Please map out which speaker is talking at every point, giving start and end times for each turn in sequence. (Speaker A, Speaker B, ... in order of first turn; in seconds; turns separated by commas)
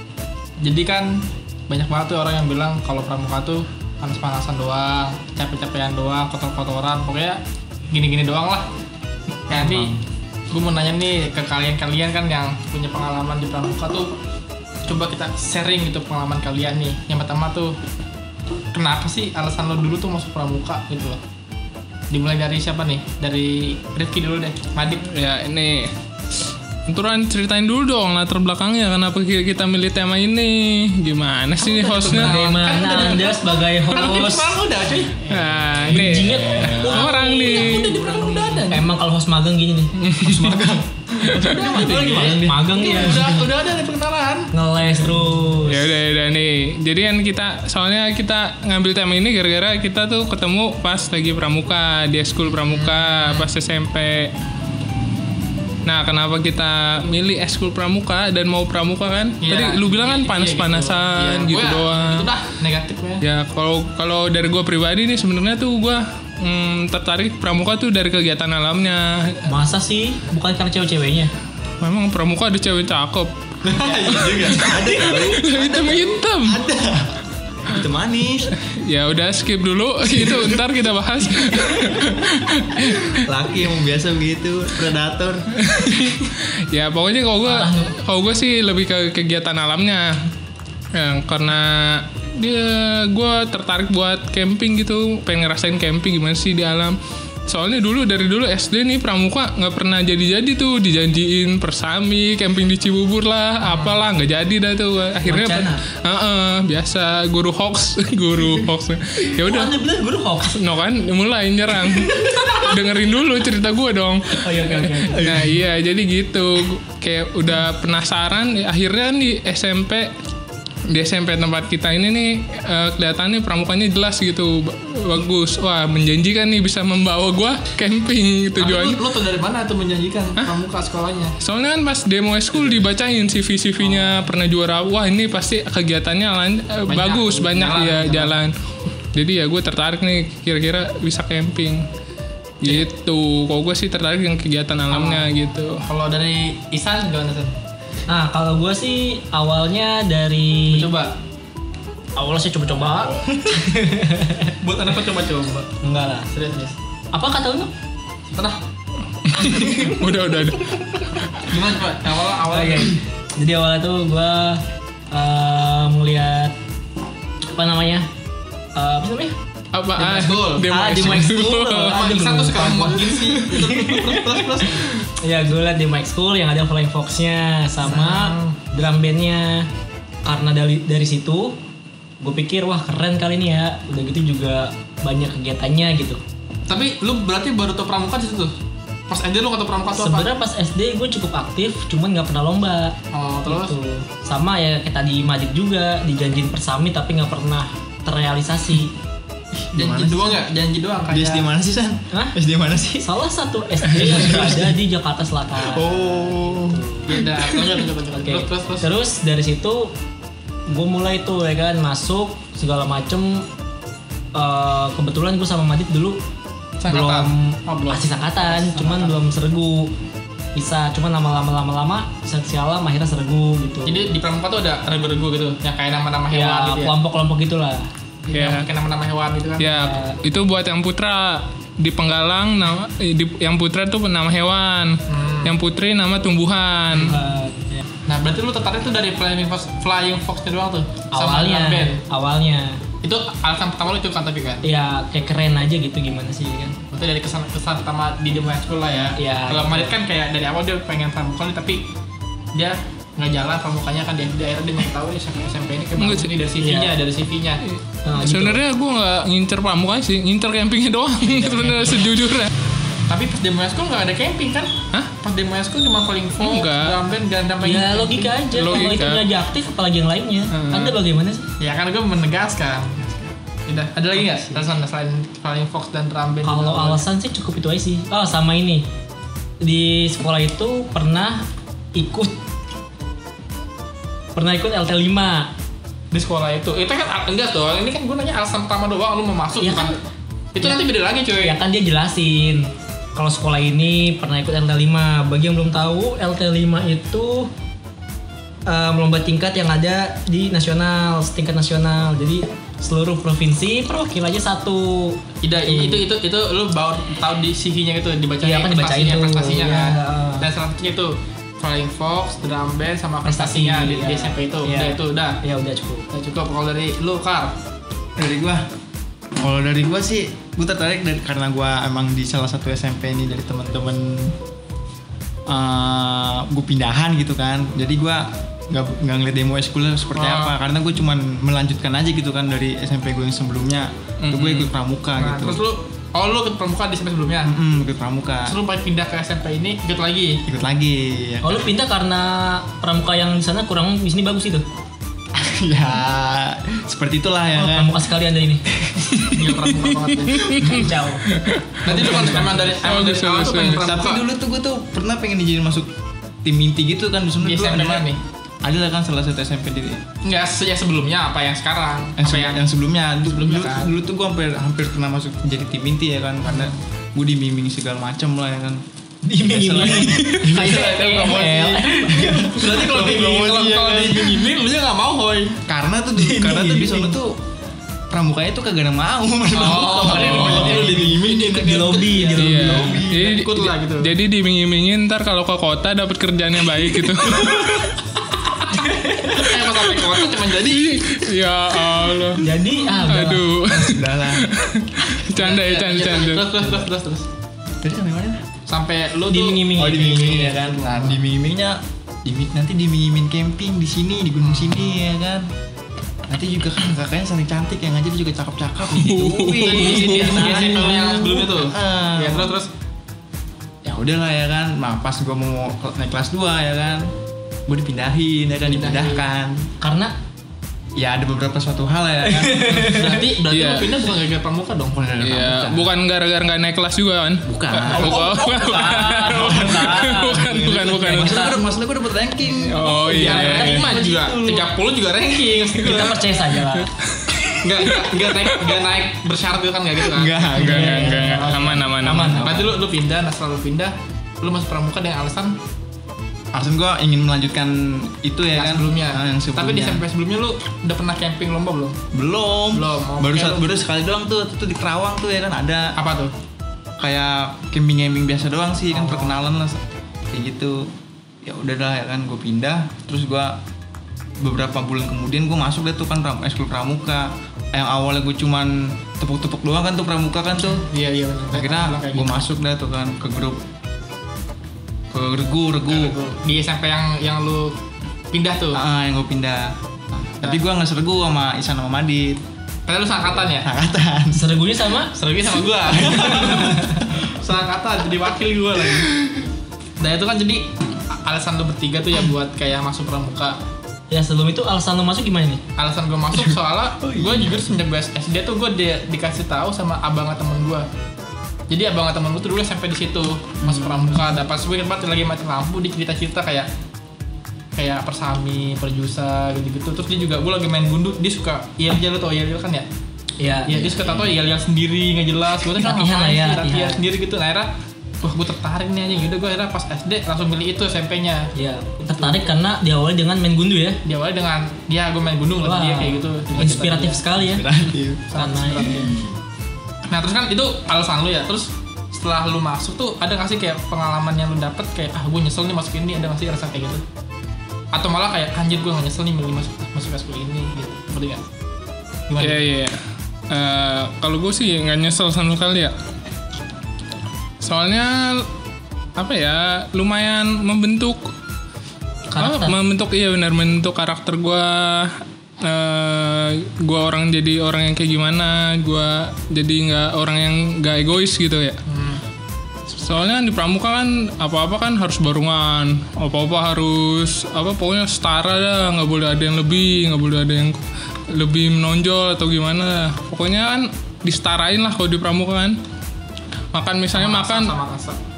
Speaker A: 0.6-8.7, Speaker A: 9.5-9.9, Speaker B: 9.5-10.0, Speaker A: 10.5-14.1, Speaker A: 14.9-17.8, Speaker A: 18.7-21.2, Speaker A: 22.1-25.0, Speaker C: 25.0-25.9, Speaker C: 26.9-32.7, Speaker A: 31.6-35.5, Speaker D: 32.1-34.5, Speaker C: 35.3-37.9, Speaker D: 35.9-39.9, Speaker A: 36.8-38.9, Speaker C: 40.0-40.7, Speaker B: 40.2-42.7, Speaker C: 41.3-41.9, Speaker A: 41.4-44.5, Speaker D: 41.6-43.5, Speaker D: 44.5-45.9, Speaker C: 45.7-54.3, Speaker A: 52.6-53.5, Speaker C: 55.9-62.3, Speaker A: 59.4-63.2, Speaker C: 63.2-69.5, Speaker D: 69.5-71.3, Speaker C: 71.8-73.3, Speaker B: 73.6-78.5, Speaker C: 74.3-76.7, Speaker C: 78.7-83.1, Speaker B: 83.1-85.5, Speaker C: 85.6-90.1, Speaker D: 87.4-87.9, Speaker C: 90.9-97.0, Speaker C: 97.5-109.7, Speaker A: 103.7-104.0, Speaker D: 105.2-105.8, Speaker D: 109.4-110.6, Speaker C: 110.5-120.1, Speaker D: 114.4-115.3, Speaker C: 120.9-129.0, Speaker A: 128.6-131.3, Speaker C: 131.4-138.5, Speaker A: 132.5-132.9, Speaker A: 133.8-134.3, Speaker A: 136.9-138.4, Speaker C: 139.1-141.9, Speaker C: 142.6-145.8, Speaker A: 144.9-147.5, Speaker D: 148.1-150.9, Speaker A: 150.7-151.2, Speaker D: 152.2-154.6, Speaker A: 154.6-155.7, Speaker D: 155.8-156.3, Speaker A: 156.3-156.8, Speaker D: 157.1-157.7, Speaker C: 159.3-160.8, Speaker D: 159.4-160.0, Speaker A: 161.5-162.9, Speaker D: 162.5-166.6, Speaker D: 167.5-168.1, Speaker D: 168.8-169.3, Speaker C: 169.7-172.1, Speaker A: 170.0-170.7, Speaker D: 170.6-174.2, Speaker B: 171.0-171.4, Speaker A: 171.8-174.9, Speaker D: 175.2-179.7, Speaker A: 177.8-178.6, Speaker D: 180.2-181.6, Speaker D: 182.2-186.2, Speaker A: 186.7-188.5, Speaker A: 189.1-190.3, Speaker D: 189.9-192.9, Speaker A: 193.1-193.8, Speaker D: 193.5-198.9, Speaker B: 199.5-200.5, Speaker A: 199.8-201.5, Speaker B: 201.1-203.1, Speaker D: 203.0-207.2, Speaker B: 203.9-204.8, Speaker B: 205.6-206.8, Speaker A: 207.1-208.9, Speaker D: 208.1-209.9, Speaker D: 210.7-213.5, Speaker D: 214.3-216.2, Speaker A: 216.8-219.2, Speaker D: 216.9-219.9, Speaker D: 220.6-224.1, Speaker A: 223.9-226.9, Speaker D: 226.3-227.9, Speaker A: 228.3-229.7, Speaker C: 228.3-228.7, Speaker C: 229.6-237.2, Speaker D: 229.7-230.2, Speaker A: 235.1-235.6, Speaker D: 236.9-237.8, Speaker A: 238.1-242.0, Speaker D: 241.1-242.8, Speaker A: 243.0-244.6, Speaker D: 244.6-246.8, Speaker A: 246.9-251.8, Speaker D: 249.2-250.0, Speaker A: 252.5-257.6, Speaker C: 256.0-256.4, Speaker D: 256.6-257.0, Speaker C: 257.6-262.5, Speaker D: 258.1-258.6, Speaker A: 261.2-262.1, Speaker A: 263.1-269.0, Speaker C: 266.4-267.0, Speaker D: 267.6-271.5, Speaker C: 268.5-269.2, Speaker C: 270.5-271.0, Speaker A: 271.6-277.1, Speaker D: 274.2-274.7, Speaker D: 276.4-278.9, Speaker D: 279.6-282.4, Speaker D: 284.4-285.5, Speaker A: 286.1-289.9, Speaker D: 289.6-289.9, Speaker A: 290.6-291.6, Speaker D: 291.4-297.5, Speaker D: 298.7-306.1, Speaker A: 305.4-315.4, Speaker D: 308.4-310.5, Speaker D: 313.2-316.1, Speaker A: 316.1-317.6, Speaker B: 318.2-318.6, Speaker B: 319.4-324.4, Speaker B: 325.5-335.6, Speaker A: 330.1-330.6, Speaker C: 334.2-334.7, Speaker A: 335.2-337.5, Speaker B: 337.5-338.6, Speaker A: 338.4-340.4, Speaker B: 340.5-341.7, Speaker D: 341.4-344.6, Speaker B: 345.4-348.0, Speaker D: 347.5-348.6, Speaker A: 349.2-350.9, Speaker C: 350.3-351.9, Speaker D: 350.6-351.2, Speaker A: 351.9-354.2, Speaker D: 351.9-353.0, Speaker C: 352.8-353.8, Speaker B: 353.6-355.9, Speaker B: 356.4-358.1, Speaker A: 357.4-358.2, Speaker B: 358.6-360.0, Speaker A: 360.2-362.6, Speaker B: 362.2-368.8, Speaker A: 363.3-363.9, Speaker A: 366.4-366.8, Speaker D: 369.2-372.6, Speaker B: 369.4-374.6, Speaker A: 372.5-375.6, Speaker B: 375.6-377.4, Speaker D: 376.2-377.2, Speaker B: 378.1-383.3, Speaker A: 379.5-384.1, Speaker D: 379.9-383.0, Speaker C: 382.4-387.8, Speaker D: 387.3-387.9, Speaker D: 388.7-389.5, Speaker A: 389.4-390.9, Speaker C: 389.9-392.4, Speaker D: 392.4-393.5, Speaker C: 393.1-396.5, Speaker B: 393.7-394.5, Speaker A: 395.3-397.2, Speaker B: 397.8-398.4, Speaker A: 398.7-401.2, Speaker D: 399.3-400.7, Speaker B: 399.8-405.5, Speaker A: 404.4-405.0, Speaker B: 406.3-412.6, Speaker C: 408.9-410.4, Speaker A: 409.6-412.7, Speaker D: 409.7-411.4, Speaker B: 413.8-417.1, Speaker B: 417.7-419.7, Speaker A: 418.6-419.3, Speaker D: 419.8-420.1, Speaker B: 421.0-422.7, Speaker D: 422.2-423.2, Speaker A: 422.6-425.1, Speaker C: 423.5-424.0, Speaker B: 424.9-425.9, Speaker C: 425.2-431.6, Speaker B: 427.5-433.0, Speaker D: 427.9-430.5, Speaker D: 431.0-431.6, Speaker C: 432.5-433.9, Speaker D: 433.0-434.7, Speaker A: 433.1-436.3, Speaker D: 435.8-436.9, Speaker C: 437.1-438.6, Speaker A: 437.6-440.6, Speaker B: 440.1-441.6, Speaker D: 440.5-442.8, Speaker C: 440.6-442.6, Speaker A: 442.4-445.6, Speaker B: 446.5-450.0, Speaker A: 448.5-452.0, Speaker B: 452.1-455.9, Speaker A: 452.7-453.7, Speaker A: 456.0-456.3, Speaker B: 457.0-460.9, Speaker A: 458.9-459.4, Speaker B: 461.4-463.6, Speaker B: 464.4-470.8, Speaker A: 470.6-472.5, Speaker B: 471.5-473.6, Speaker B: 475.1-476.2, Speaker A: 475.9-477.8, Speaker A: 478.3-478.8, Speaker B: 478.7-482.4, Speaker A: 482.9-483.7, Speaker B: 483.5-484.4, Speaker D: 484.3-485.1, Speaker A: 485.1-489.1, Speaker B: 485.9-486.9, Speaker A: 490.0-490.7, Speaker A: 491.2-493.6, Speaker D: 494.1-495.6, Speaker A: 495.8-500.9, Speaker B: 497.1-497.5, Speaker A: 501.7-506.7, Speaker B: 503.6-504.3, Speaker A: 507.8-512.9, Speaker D: 513.4-514.2, Speaker A: 513.7-517.7, Speaker D: 515.8-517.0, Speaker A: 518.2-521.5, Speaker D: 521.6-524.0, Speaker A: 524.0-527.2, Speaker D: 525.6-527.6, Speaker B: 527.4-528.3, Speaker A: 528.3-529.1, Speaker D: 528.4-529.1, Speaker A: 530.1-537.0, Speaker A: 537.9-541.4, Speaker A: 542.3-542.6, Speaker C: 542.4-543.0, Speaker C: 543.5-545.9, Speaker C: 547.6-548.5, Speaker C: 549.2-551.3, Speaker D: 552.3-552.8, Speaker C: 552.4-561.8, Speaker A: 561.9-562.2, Speaker C: 562.9-575.8, Speaker C: 576.7-577.8, Speaker A: 577.1-578.2